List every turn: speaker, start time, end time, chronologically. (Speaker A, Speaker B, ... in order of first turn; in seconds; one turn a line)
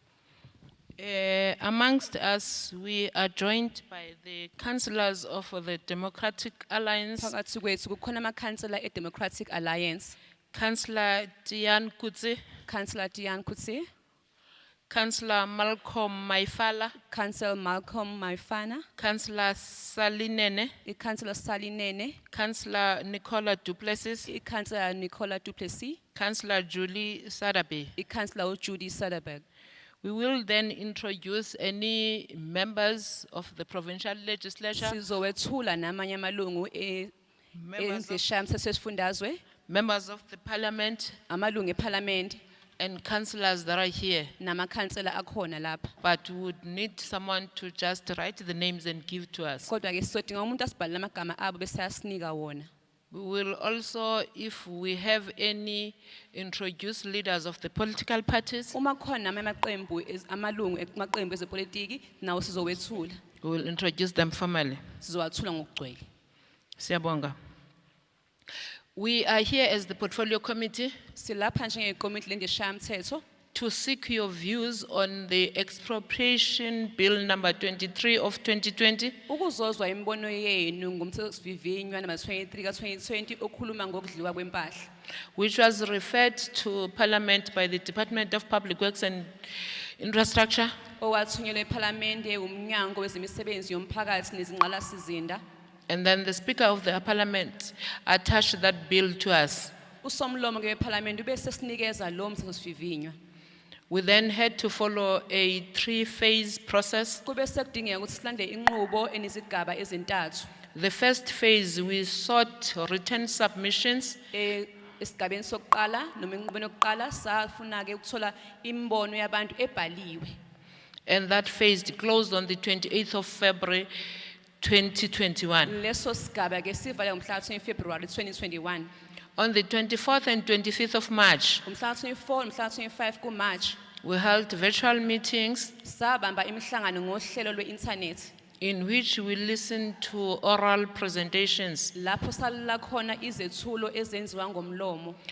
Speaker A: 1.0-7.3
Speaker B: 7.2-10.2
Speaker A: 10.5-12.4
Speaker B: 12.7-13.9
Speaker A: 14.9-16.9
Speaker B: 17.1-18.9
Speaker A: 19.0-20.7
Speaker B: 20.8-22.2
Speaker A: 22.3-24.3
Speaker B: 24.2-26.0
Speaker A: 26.1-27.9
Speaker B: 28.0-29.4
Speaker A: 30.0-35.0
Speaker B: 34.8-37.1
Speaker A: 37.5-38.2
Speaker B: 37.8-39.4
Speaker A: 39.7-41.2
Speaker B: 41.3-42.4
Speaker A: 42.8-44.3
Speaker B: 44.4-45.9
Speaker A: 46.0-49.7
Speaker B: 49.6-52.7
Speaker A: 53.1-58.7
Speaker B: 58.7-63.2
Speaker A: 63.4-64.8
Speaker B: 65.0-66.0
Speaker A: 66.8-67.3
Speaker A: 69.0-70.9
Speaker B: 71.1-73.2
Speaker A: 73.5-79.2
Speaker B: 79.3-84.9
Speaker A: 85.3-89.3
Speaker A: 90.0-90.7
Speaker B: 91.0-95.4
Speaker A: 95.9-99.7
Speaker B: 100.0-103.2
Speaker A: 103.9-107.2
Speaker B: 107.2-110.5
Speaker A: 110.7-114.2
Speaker B: 114.3-120.4
Speaker A: 121.0-123.9
Speaker A: 124.6-125.7
Speaker B: 125.6-128.9
Speaker A: 129.4-131.6
Speaker B: 131.6-133.8
Speaker A: 134.0-135.7
Speaker B: 135.8-138.3
Speaker A: 138.6-141.9
Speaker B: 141.9-145.2